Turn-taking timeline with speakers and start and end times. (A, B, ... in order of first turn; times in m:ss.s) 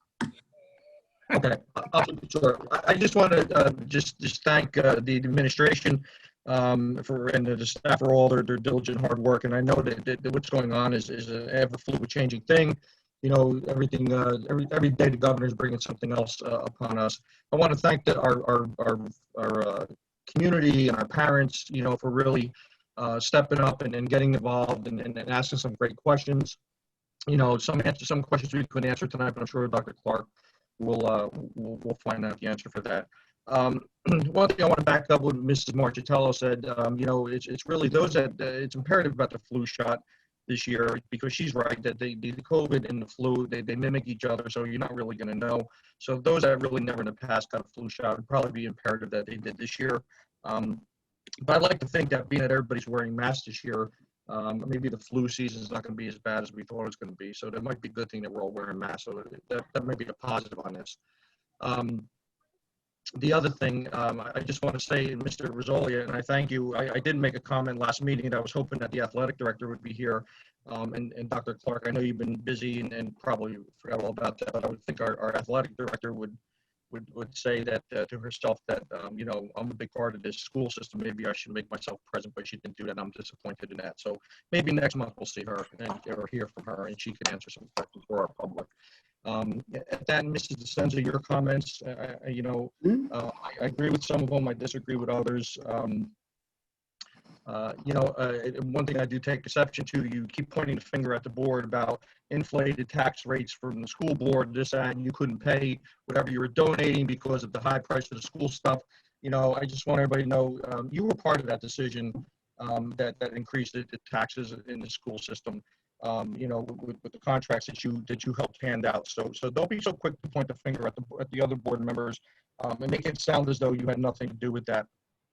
0:01.3-0:26.6 A
0:27.3-0:30.3 A
0:30.8-0:50.8 A
0:51.4-1:01.0 A
1:01.6-1:02.1 A
1:03.2-1:16.4 A
1:16.9-1:28.7 A
1:29.2-1:36.1 A
1:37.4-2:04.9 A